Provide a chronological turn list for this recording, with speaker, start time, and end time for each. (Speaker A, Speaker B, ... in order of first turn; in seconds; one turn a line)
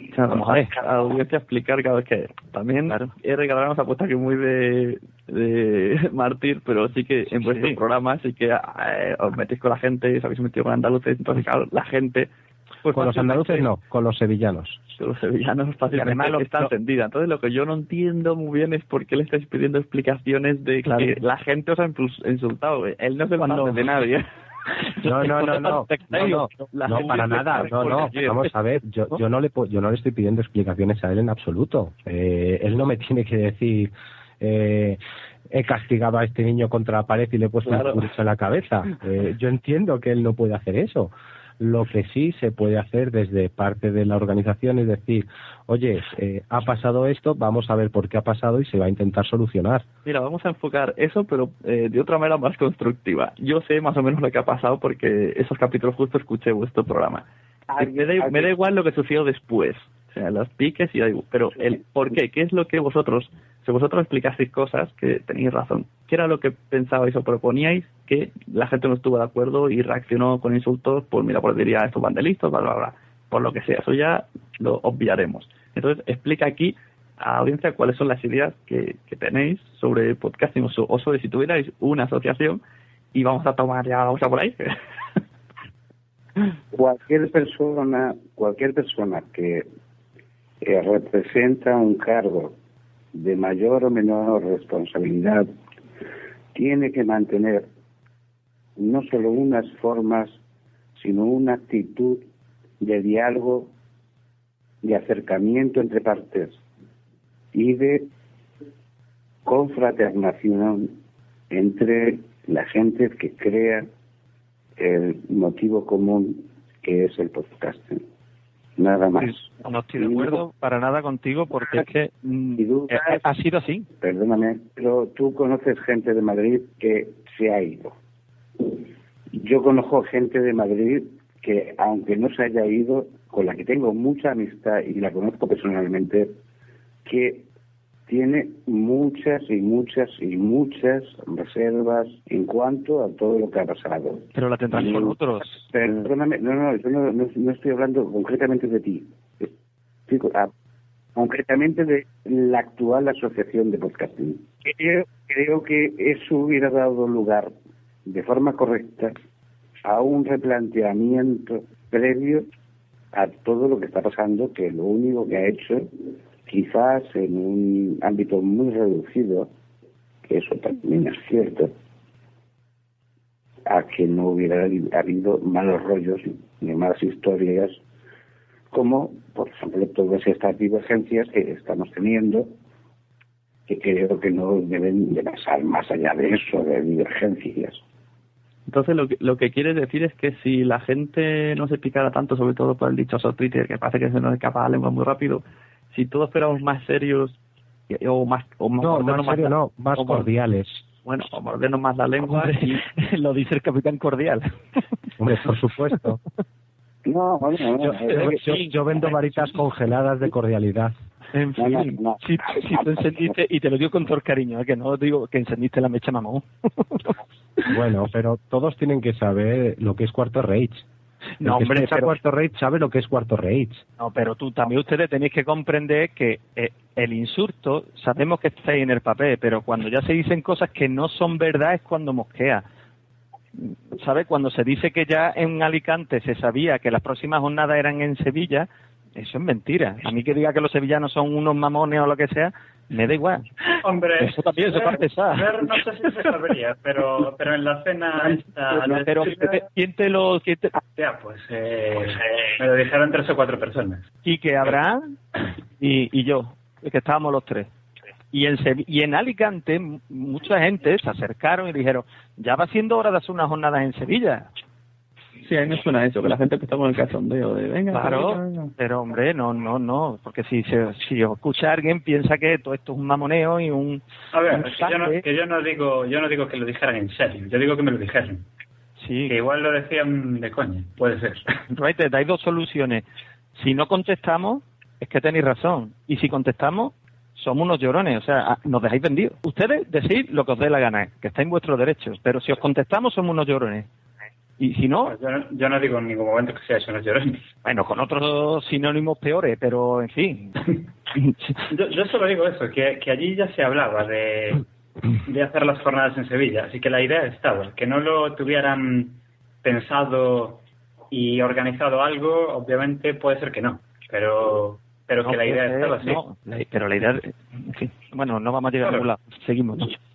Speaker A: 0.1-12.3
Speaker B: 0.2-0.8
Speaker B: 7.5-7.8
Speaker A: 12.8-13.6
Speaker C: 12.9-14.8
Speaker B: 13.0-13.5
Speaker A: 15.0-24.3
Speaker B: 15.9-16.7
Speaker B: 23.5-23.8
Speaker A: 25.0-28.5
Speaker C: 25.0-49.9
Speaker A: 37.7-38.1
Speaker A: 50.0-57.2
Speaker D: 57.7-58.5
Speaker A: 57.8-82.6
Speaker A: 83.1-84.7
Speaker D: 86.7-89.7
Speaker D: 90.6-92.6
Speaker D: 93.1-95.5
Speaker D: 96.5-97.7
Speaker D: 98.8-100.4
Speaker D: 101.0-102.2
Speaker D: 102.8-103.7
Speaker D: 104.8-106.6
Speaker D: 107.5-108.1
Speaker D: 109.5-111.0
Speaker D: 111.5-113.9
Speaker D: 114.8-118.0
Speaker D: 118.8-120.4
Speaker B: 119.2-123.9
Speaker D: 122.6-123.2
Speaker D: 124.0-128.0
Speaker D: 129.3-136.3
Speaker D: 137.1-137.4
Speaker D: 138.1-149.5
Speaker B: 144.3-145.6
Speaker D: 150.1-150.5
Speaker D: 151.1-157.5
Speaker D: 158.1-159.1
Speaker D: 159.8-162.5
Speaker D: 163.1-165.9
Speaker D: 166.4-169.5
Speaker D: 170.3-171.7
Speaker D: 173.7-177.8
Speaker D: 178.7-182.5
Speaker D: 183.7-187.8
Speaker A: 188.7-197.4
Speaker A: 197.9-200.3
Speaker C: 198.8-200.8
Speaker A: 201.1-202.9
Speaker B: 202.3-204.5
Speaker C: 205.2-206.2
Speaker D: 207.1-208.6
Speaker C: 207.8-210.9
Speaker B: 207.9-209.4
Speaker B: 211.3-217.1
Speaker D: 211.6-213.4
Speaker C: 217.7-220.8
Speaker B: 221.4-222.1
Speaker C: 221.4-223.8
Speaker B: 224.0-232.6
Speaker B: 233.6-243.5
Speaker E: 243.8-249.6
Speaker B: 244.2-246.3
Speaker B: 248.2-250.8
Speaker E: 250.9-254.1
Speaker B: 254.2-255.1
Speaker B: 255.8-257.7
Speaker B: 258.3-264.5
Speaker A: 265.4-268.7
Speaker B: 267.9-275.2
Speaker E: 274.3-278.4
Speaker B: 279.0-279.4
Speaker E: 279.3-281.4
Speaker B: 281.7-283.1
Speaker B: 283.6-293.9
Speaker B: 294.6-295.1
Speaker E: 295.1-297.5
Speaker B: 297.6-300.5
Speaker B: 301.2-301.5
Speaker E: 301.7-304.6
Speaker E: 305.3-316.2
Speaker B: 315.2-319.9
Speaker E: 318.8-319.1